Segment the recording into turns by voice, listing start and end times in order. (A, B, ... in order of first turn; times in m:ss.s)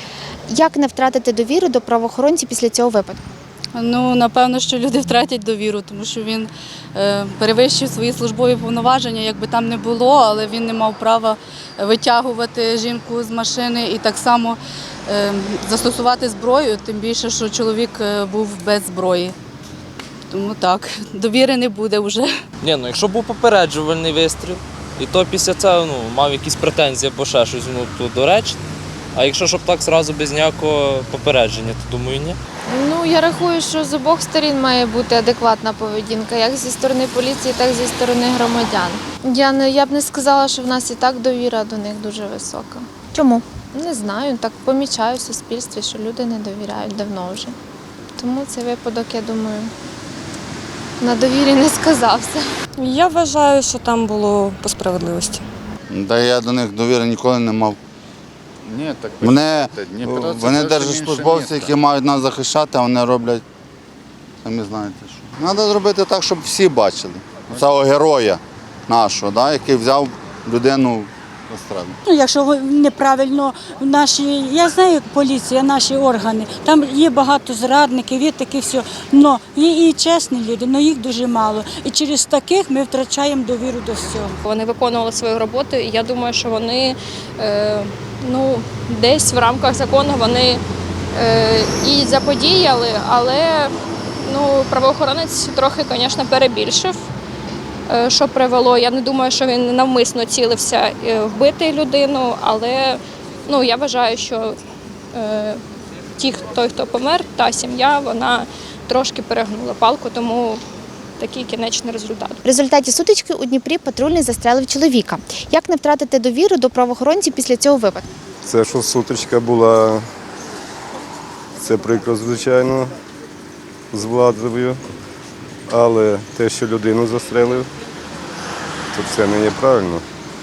0:00.5-0:03.2 A
0:03.7-0:19.3 B
0:20.3-0:22.3 B
0:22.6-0:28.6 C
0:29.1-0:32.4 C
0:32.7-0:42.9 D
0:43.1-0:43.4 A
0:43.7-0:47.5 D
0:48.2-0:49.7 D
0:51.0-0:52.4 D
0:52.8-0:55.4 E
0:55.9-0:57.8 F
0:58.6-1:01.8 G
0:59.2-1:03.4 F
1:04.4-1:12.0 F
1:12.1-1:24.4 H
1:24.4-1:30.6 I
1:31.1-1:37.0 I
1:37.9-1:44.6 I
1:45.1-1:45.6 I
1:46.2-1:50.6 I
1:51.2-1:52.4 I
1:52.4-1:58.0 A
1:58.4-2:00.0 J
2:01.6-2:02.9 J
2:03.9-2:04.8 J
2:05.7-2:07.7 J
2:08.9-2:10.0 J